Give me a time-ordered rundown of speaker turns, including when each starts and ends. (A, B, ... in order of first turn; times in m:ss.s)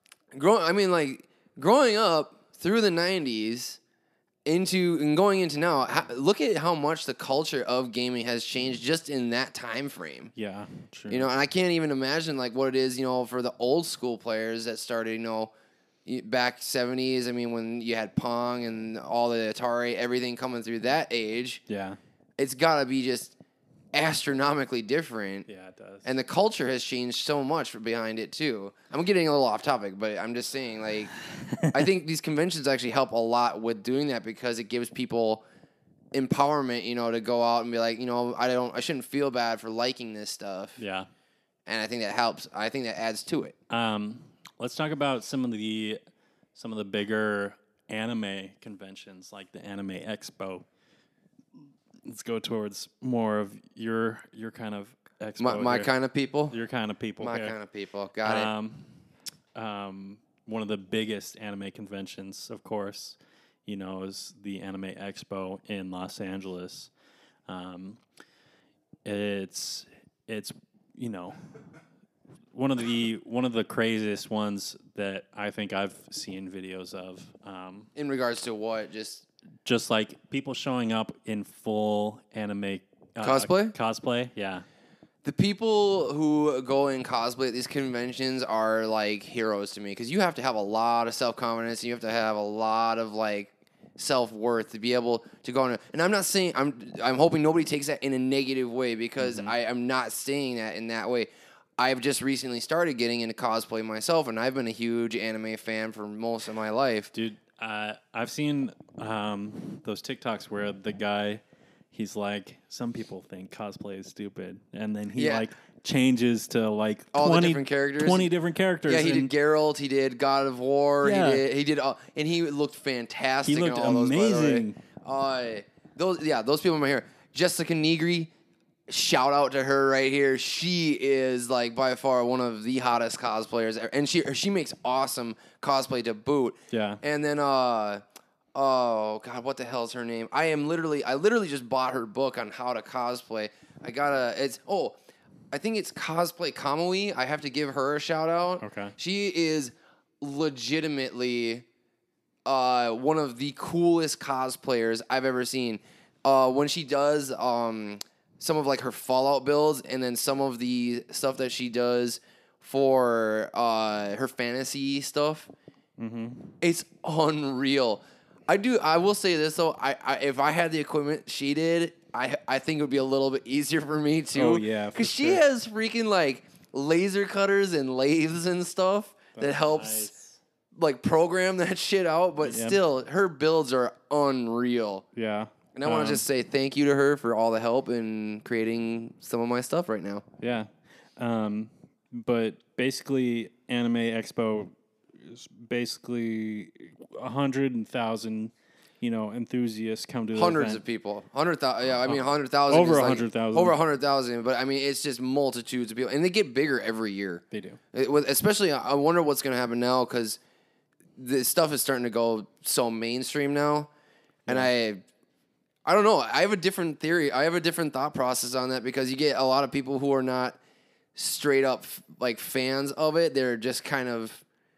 0:00.3-0:03.8 A
0:04.4-0:10.3 A
0:10.3-0:11.3 B
0:11.1-0:15.5 A
0:16.0-0:21.6 A
0:21.7-0:22.0 B
0:22.4-0:23.4 A
0:23.9-0:25.5 A
0:25.5-0:26.1 B
0:26.0-0:31.1 A
0:31.5-0:31.8 B
0:31.7-0:35.4 A
0:36.1-0:40.8 A
0:40.8-0:41.1 B
0:41.6-0:43.5 A
0:43.7-0:46.0 B
0:46.5-0:50.6 B
0:52.0-0:55.9 B
0:55.4-0:56.5 A
0:56.5-0:57.6 B
0:57.2-0:58.5 A
0:58.2-0:58.9 B
0:59.5-1:06.9 B
1:07.5-1:08.0 B
1:09.0-1:11.4 B
1:12.5-1:17.9 B
1:18.0-1:19.2 A
1:19.6-1:24.6 B
1:23.2-1:23.7 A
1:25.2-1:47.1 A
1:39.2-1:39.5 B
1:47.1-1:51.4 B
1:51.9-1:59.3 B
1:55.2-1:55.5 A
1:57.1-1:58.3 A
1:58.9-2:08.3 A
2:01.0-2:01.4 B
2:03.4-2:04.8 B
2:08.9-2:18.0 A
2:16.7-2:17.0 B
2:18.5-2:25.0 A
2:25.5-2:31.6 A
2:28.6-2:28.9 B
2:32.4-2:45.5 A
2:46.0-2:46.6 B
2:46.6-3:00.1 A
2:54.3-2:55.4 B
2:59.3-3:00.4 B
3:00.7-3:05.0 A
3:02.4-3:02.8 B
3:05.1-3:06.2 B
3:05.7-3:10.2 A
3:10.4-3:20.8 B
3:20.3-3:30.4 A
3:22.0-3:23.8 B
3:27.5-3:27.8 B
3:31.2-3:33.9 A
3:34.5-3:35.0 A
3:35.8-3:40.6 A
3:41.1-3:44.4 A